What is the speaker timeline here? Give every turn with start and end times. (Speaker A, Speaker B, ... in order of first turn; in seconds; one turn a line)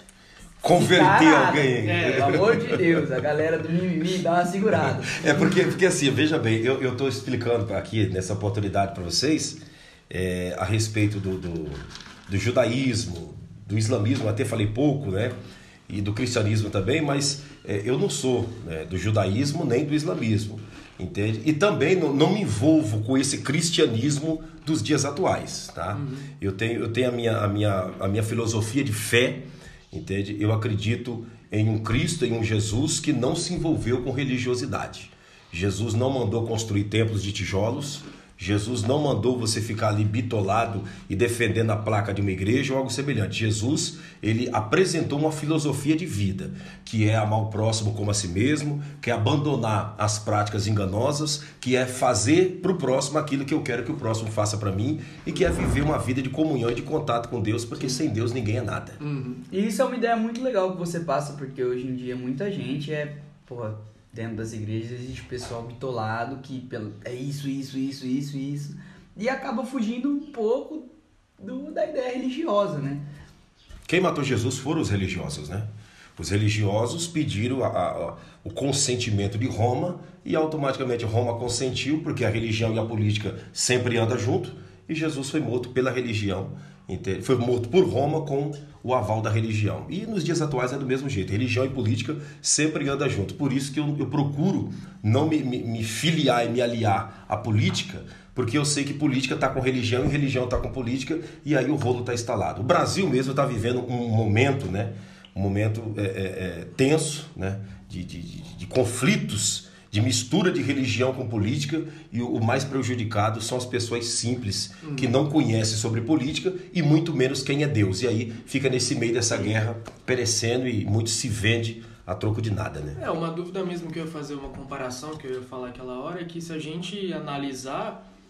Speaker A: 0.6-3.1
Speaker B: 0.7-5.3
Speaker C: 1.8-2.4
Speaker A: 4.7-15.3
Speaker A: 15.9-59.0
Speaker C: 25.9-26.3
Speaker C: 59.0-59.4
Speaker B: 59.5-70.9
Speaker B: 71.4-73.0
Speaker A: 73.9-123.0
Speaker C: 114.8-115.1
Speaker C: 123.0-128.0